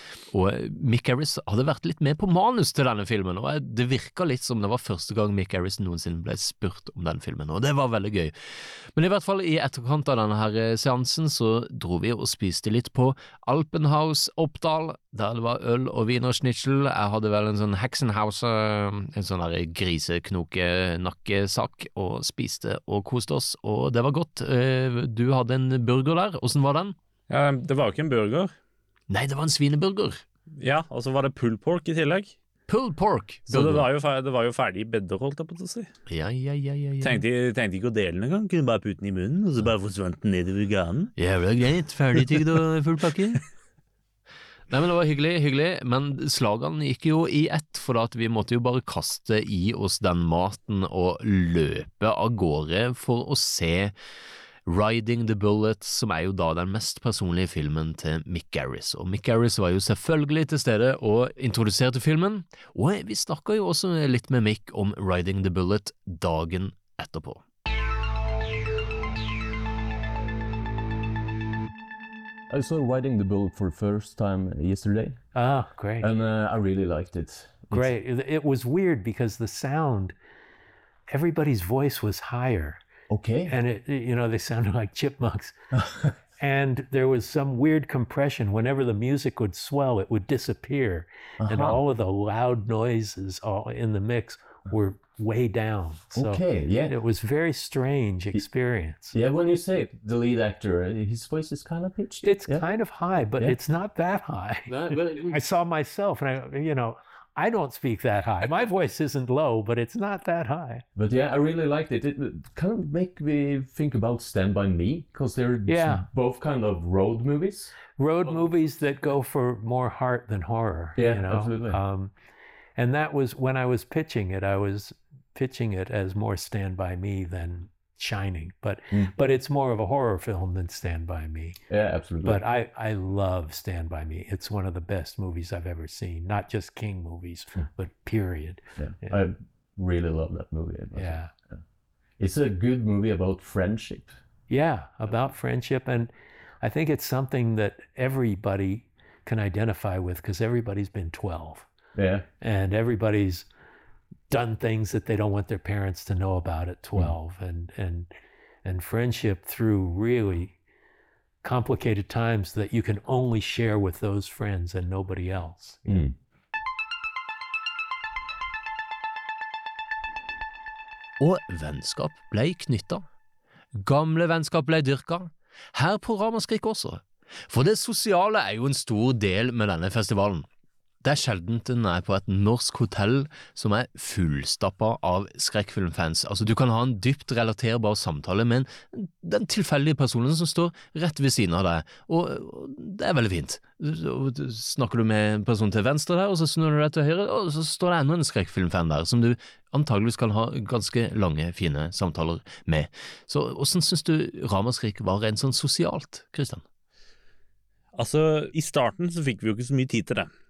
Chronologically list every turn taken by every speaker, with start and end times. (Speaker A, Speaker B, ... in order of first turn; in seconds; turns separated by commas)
Speaker A: 0.3-26.9, Speaker B: 27.3-28.5, Speaker A: 29.1-30.2, Speaker B: 30.6-32.4, Speaker A: 32.7-33.9, Speaker B: 33.5-35.9, Speaker A: 36.1-37.2, Speaker B: 37.0-41.1, Speaker A: 41.2-43.4, Speaker A: 44.7-53.9, Speaker A: 54.6-67.4, Speaker C: 72.5-75.2, Speaker D: 75.3-76.1, Speaker C: 76.0-77.9, Speaker D: 77.7-80.1, Speaker D: 81.1-82.8, Speaker C: 83.1-83.5, Speaker D: 83.5-85.5, Speaker C: 85.7-86.1, Speaker D: 86.4-99.1, Speaker C: 91.4-91.8, Speaker C: 96.1-96.9, Speaker C: 99.1-103.5, Speaker D: 102.2-110.8, Speaker C: 104.7-105.4, Speaker C: 111.0-117.8, Speaker D: 115.7-116.0, Speaker D: 118.0-122.1, Speaker C: 121.0-121.8, Speaker D: 122.8-131.6, Speaker C: 131.7-132.4, Speaker D: 132.2-139.2, Speaker C: 138.8-141.6, Speaker D: 140.9-141.3, Speaker C: 142.2-144.2, Speaker D: 144.5-146.1, Speaker D: 146.6-151.7, Speaker C: 151.9-152.2, Speaker D: 152.4-153.5, Speaker D: 154.3-158.1, Speaker D: 158.6-160.5, Speaker D: 161.4-165.8, Speaker C: 165.8-166.1, Speaker A: 171.2-173.0, Speaker A: 173.7-180.4, Speaker A: 181.0-206.6, Speaker B: 207.9-210.3